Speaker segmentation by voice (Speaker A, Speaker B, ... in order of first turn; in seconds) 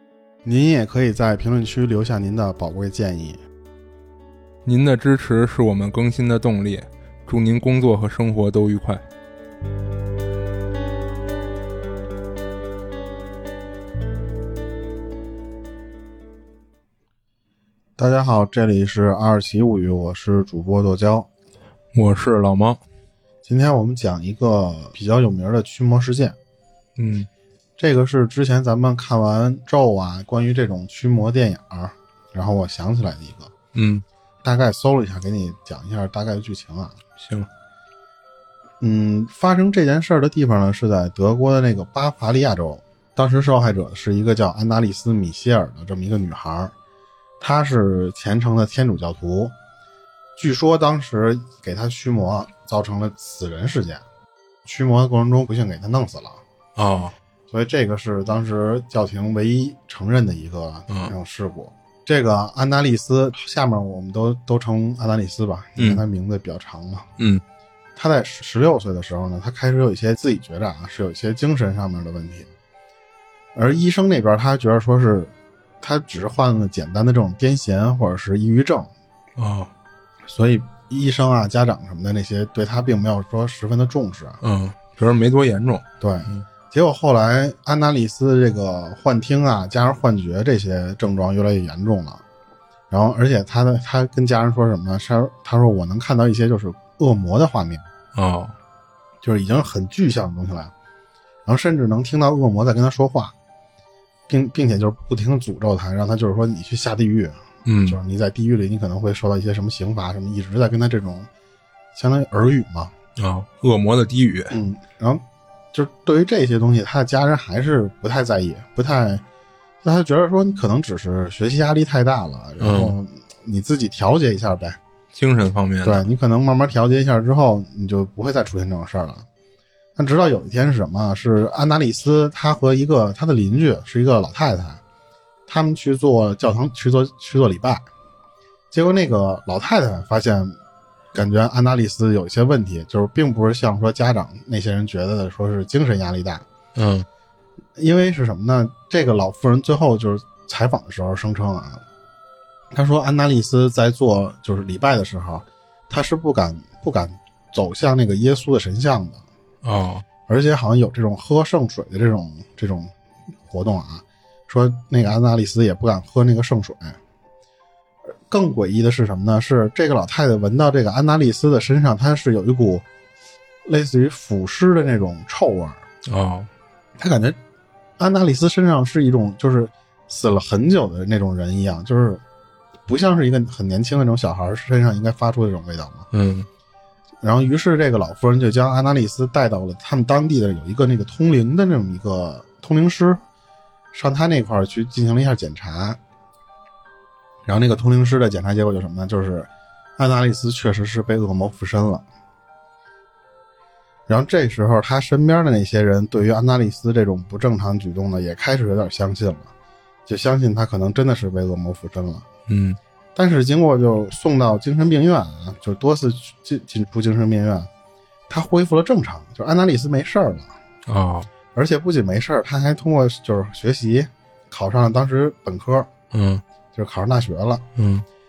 Speaker A: 0.4-3.4, 18.0-21.3, 23.4-26.4, 27.8-33.5, 34.4-37.0, 38.8-46.7, 47.4-49.5, 50.4-54.0, 54.6-56.4, 57.5-67.1, 68.0-72.5, 73.5-78.9, 80.3-84.4, 86.0-92.2, 92.9-97.8, 99.2-100.7, 101.5-103.3, 104.3-111.3, 112.0-112.9, 114.5-115.2, 115.7-119.2, 119.8-124.8, 125.8-129.2, 129.9-134.8, 135.5-137.9, 138.7-140.6, 141.1-146.4, 147.8-151.8, 152.7-159.2, 160.3-162.9, 163.4-167.0, 168.3-172.8, 173.7-175.8, 177.0-177.4, 178.0-182.2, 182.9-186.1, 187.2-193.2, 193.9-196.0, 197.4-202.0, 204.1-209.5, 210.1-212.3, 213.1-217.7, 218.3-220.5, 221.5-225.9, 226.7-227.6
Speaker B: 4.7-9.0, 21.9-22.8, 27.0-27.3, 33.7-34.0, 37.2-37.5, 56.8-57.1, 65.8-66.0, 79.4-79.7, 84.4-86.4, 98.1-98.5, 107.7-108.0, 113.2-114.5, 122.6-123.0, 125.1-126.1, 146.7-147.1, 159.6-160.0, 176.1-176.5, 186.1-186.5, 212.5-212.8, 220.8-221.3, 226.1-226.4, 227.8-228.1